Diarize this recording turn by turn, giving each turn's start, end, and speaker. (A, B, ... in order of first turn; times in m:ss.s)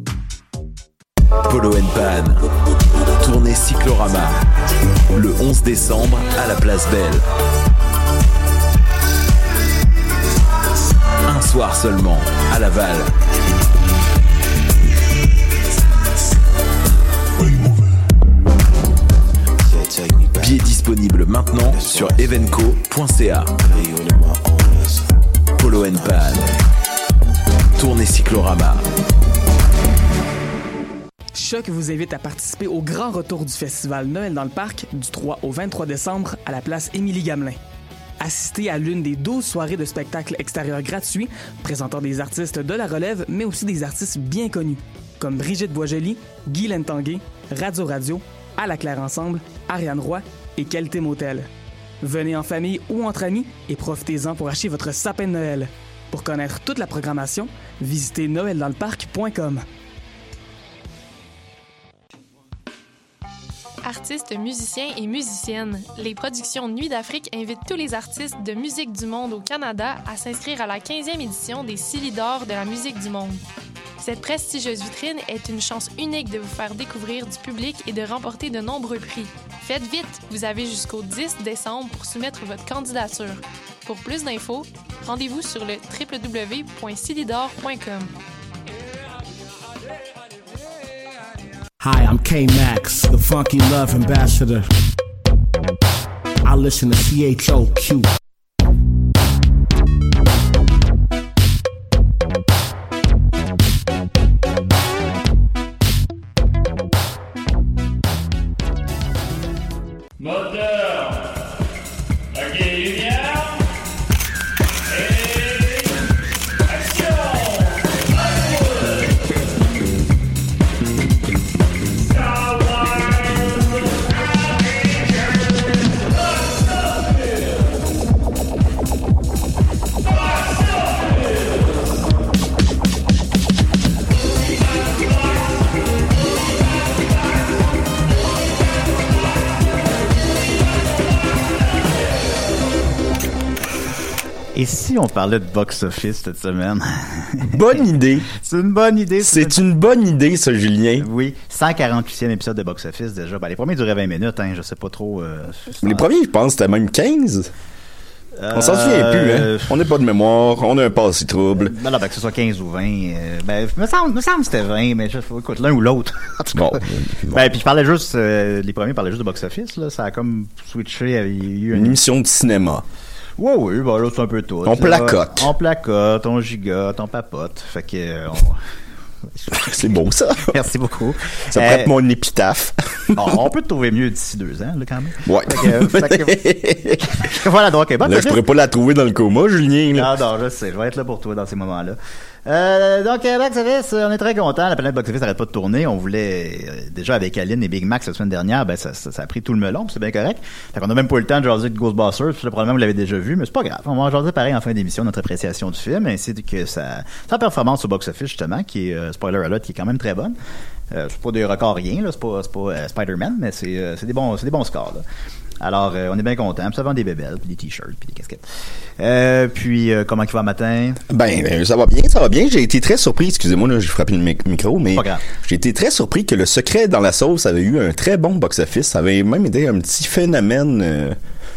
0:01.4-0:02.4 A
0:03.2-0:04.4 A
0:05.1-0:07.2 A
0:11.2-0:13.1 A
0:20.2-0:24.1 A
0:25.6-0:26.5 A
0:27.8-0:28.8 A
0:31.3-0:37.6 B
0:38.2-0:51.5 B
0:52.0-0:59.6 B
1:03.8-1:13.4 C
1:14.0-1:28.1 C
1:31.8-1:34.7 D
1:36.4-1:38.1 D
2:24.5-2:29.6 E
2:27.4-2:28.3 F
2:29.2-2:31.1 F
2:31.0-2:36.0 E
2:35.8-2:37.5 F
2:38.4-2:39.8 E
2:38.5-2:41.7 F
2:41.6-2:52.0 E
2:46.5-2:47.5 F
2:51.7-2:52.8 F
2:53.4-2:58.6 E
2:54.6-2:55.5 F
2:59.4-3:01.9 E
2:59.5-3:00.6 F
3:01.5-3:03.4 F
3:03.1-3:08.4 E
3:05.2-3:07.0 F
3:08.0-3:10.1 F
3:09.9-3:30.3 E
3:30.9-3:35.0 E
3:35.6-3:38.4 E
3:39.0-3:41.0 E
3:41.1-3:51.2 F
3:44.9-3:45.2 E